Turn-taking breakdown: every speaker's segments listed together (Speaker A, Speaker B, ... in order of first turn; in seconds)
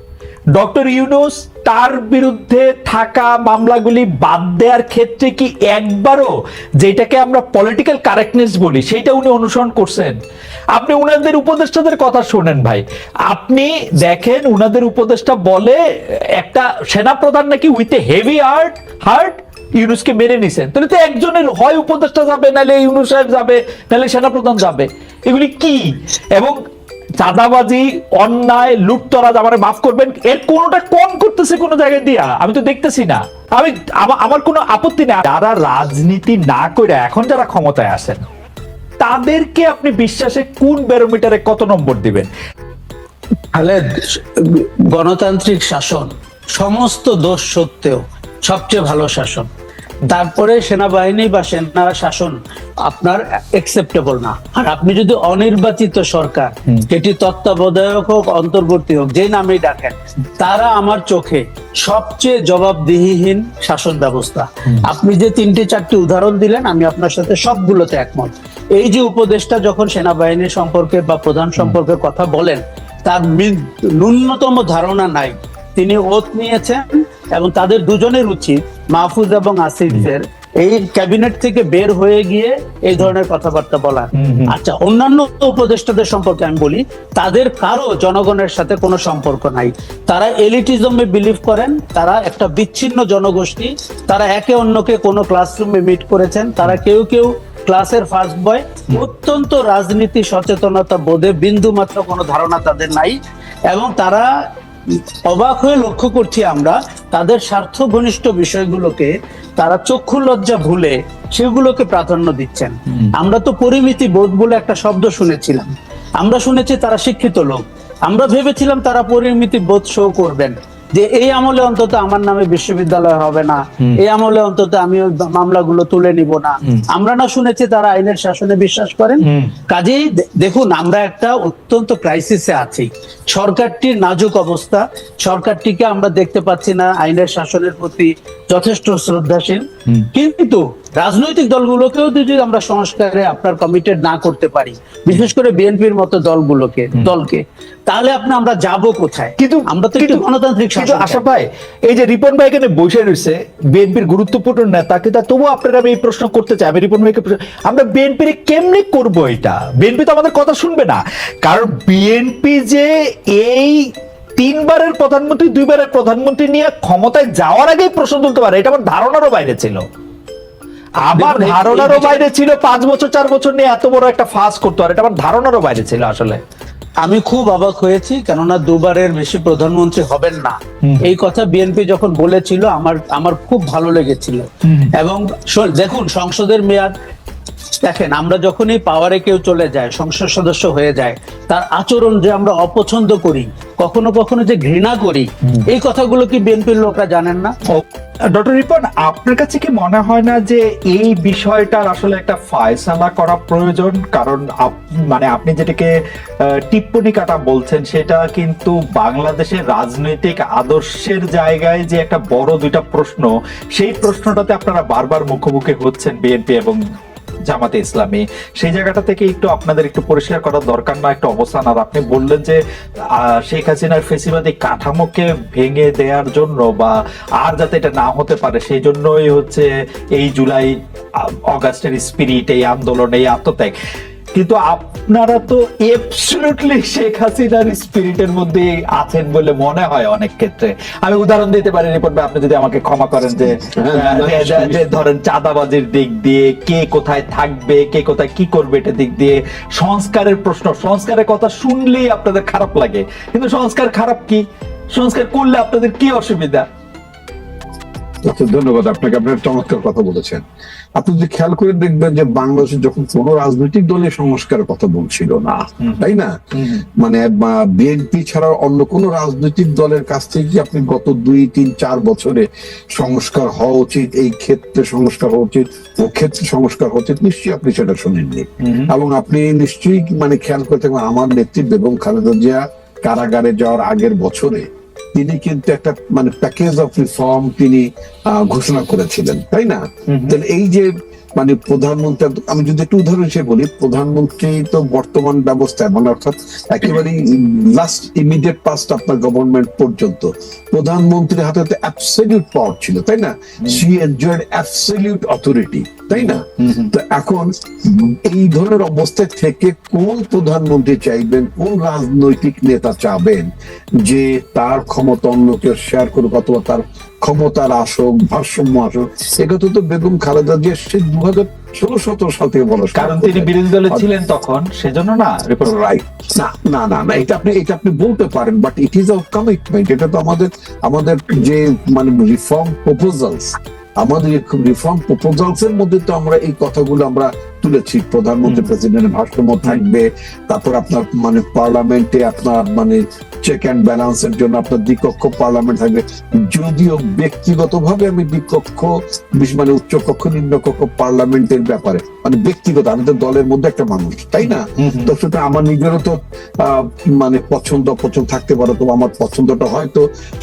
Speaker A: 0.5-10.2, 10.7-26.6, 27.2-38.2, 39.0-42.3, 84.1-84.5, 129.2-129.6, 149.4-169.8, 171.0-176.4, 180.8-181.1, 184.6-184.9, 197.7-205.9, 206.5-216.8, 217.5-222.6, 223.1-233.8, 234.3-256.6, 265.8-266.9, 278.6-278.9, 290.1-290.4, 306.1-306.9, 322.9-325.9, 338.4-338.7, 354.4-355.1
Speaker B: 43.5-49.5, 50.1-103.2, 103.7-104.3, 104.9-151.2, 171.1-172.2, 177.0-186.9, 187.8-197.5
Speaker C: 243.7-244.9, 258.2-260.4, 260.9-266.4, 267.0-313.5, 314.0-324.1, 325.6-360.0